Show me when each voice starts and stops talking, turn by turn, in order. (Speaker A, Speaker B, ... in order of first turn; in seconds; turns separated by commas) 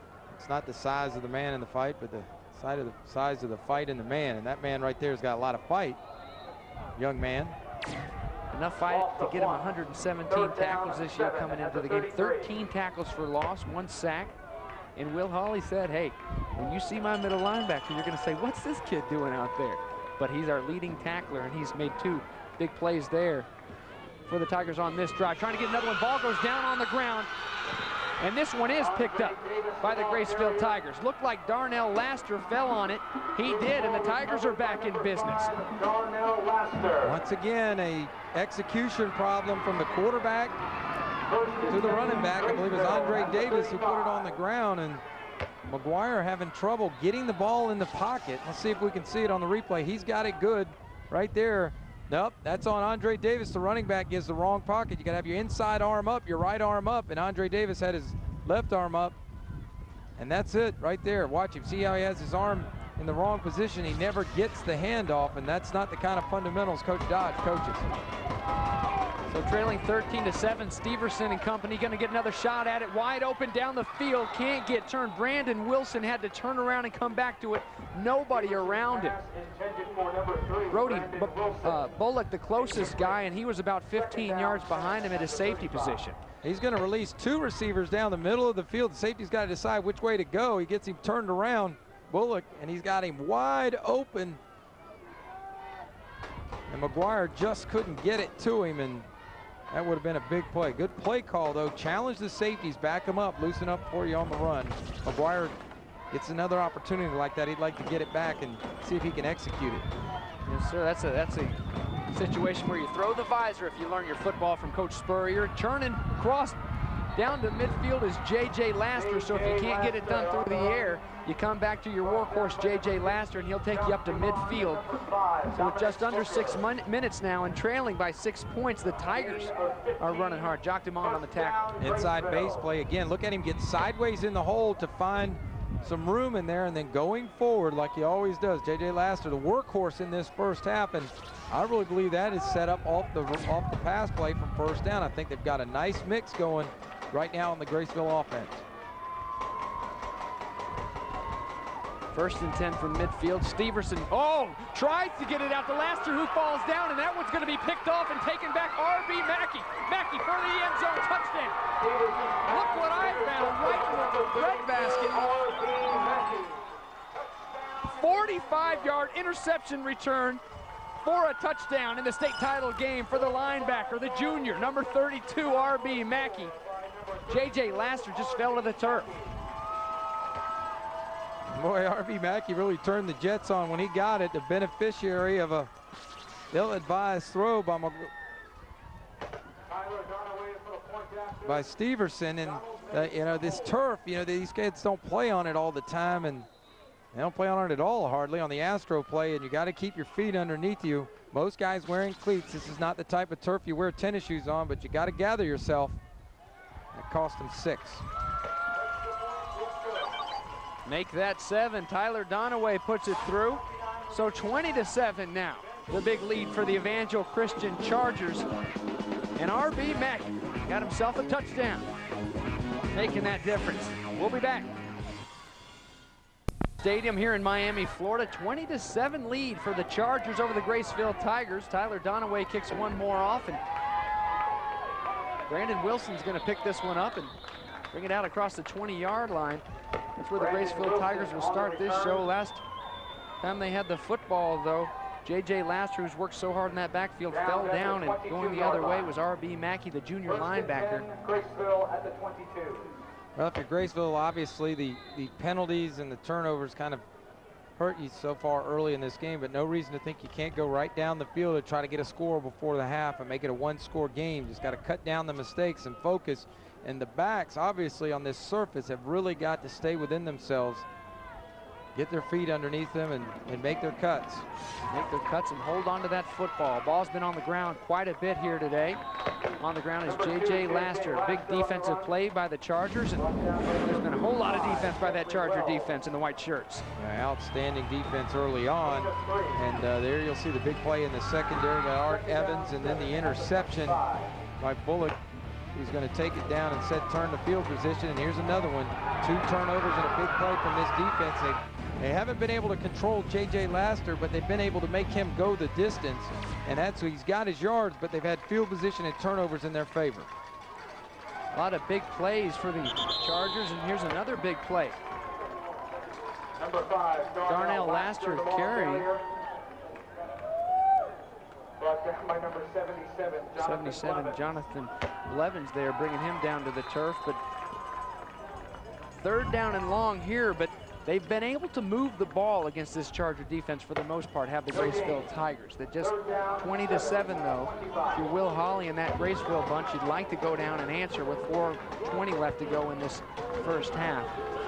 Speaker A: 0.3-6.0, Speaker A: 7.0-7.5, Speaker B: 8.5-14.4, Speaker C: 8.9-9.7, Speaker C: 10.3-12.5, Speaker B: 15.0-23.5, Speaker B: 24.3-27.3, Speaker B: 28.2-35.5, Speaker C: 28.8-30.8, Speaker C: 33.4-37.1, Speaker A: 37.0-40.5, Speaker C: 41.2-44.3, Speaker A: 41.7-45.0, Speaker A: 45.7-59.2, Speaker A: 60.2-67.9, Speaker B: 69.3-79.2, Speaker C: 78.3-81.9, Speaker B: 80.7-86.2, Speaker C: 82.5-83.2, Speaker C: 83.9-86.0, Speaker A: 86.4-94.4, Speaker A: 96.7-99.1, Speaker A: 99.7-105.5, Speaker A: 106.1-109.9, Speaker B: 110.4-116.6, Speaker B: 117.1-124.9, Speaker C: 118.9-121.0, Speaker C: 122.0-126.6, Speaker B: 125.5-131.6, Speaker C: 128.9-132.7, Speaker A: 131.8-148.6, Speaker B: 152.1-161.6, Speaker C: 161.8-169.2, Speaker B: 162.4-165.2, Speaker B: 167.8-170.4, Speaker B: 171.0-176.5, Speaker C: 173.1-179.3, Speaker B: 177.3-179.1, Speaker A: 181.5-185.7, Speaker A: 186.5-188.1, Speaker C: 189.7-191.7, Speaker A: 191.4-196.5, Speaker C: 192.4-193.8, Speaker A: 197.1-206.0, Speaker A: 206.9-208.1, Speaker C: 208.8-210.2, Speaker B: 210.8-218.5, Speaker B: 219.3-221.9, Speaker B: 222.9-224.7, Speaker B: 226.8-233.6, Speaker B: 235.5-237.3, Speaker B: 237.9-239.6, Speaker B: 240.2-242.6, Speaker C: 240.3-242.3, Speaker B: 243.4-251.1, Speaker C: 247.3-249.1, Speaker C: 250.2-252.9, Speaker A: 253.3-257.0, Speaker A: 257.8-270.9, Speaker A: 271.9-274.5, Speaker B: 274.9-279.0, Speaker B: 279.6-283.2, Speaker C: 280.0-282.1, Speaker C: 283.2-285.9, Speaker B: 283.8-286.8, Speaker A: 286.9-294.0, Speaker C: 288.8-289.6, Speaker C: 292.0-294.4, Speaker A: 294.6-295.2, Speaker A: 295.7-310.3, Speaker B: 311.5-315.0, Speaker C: 316.6-319.3, Speaker B: 317.5-319.1, Speaker C: 321.8-324.4, Speaker B: 323.6-327.4, Speaker B: 329.2-344.3, Speaker C: 334.7-335.2, Speaker C: 336.0-338.3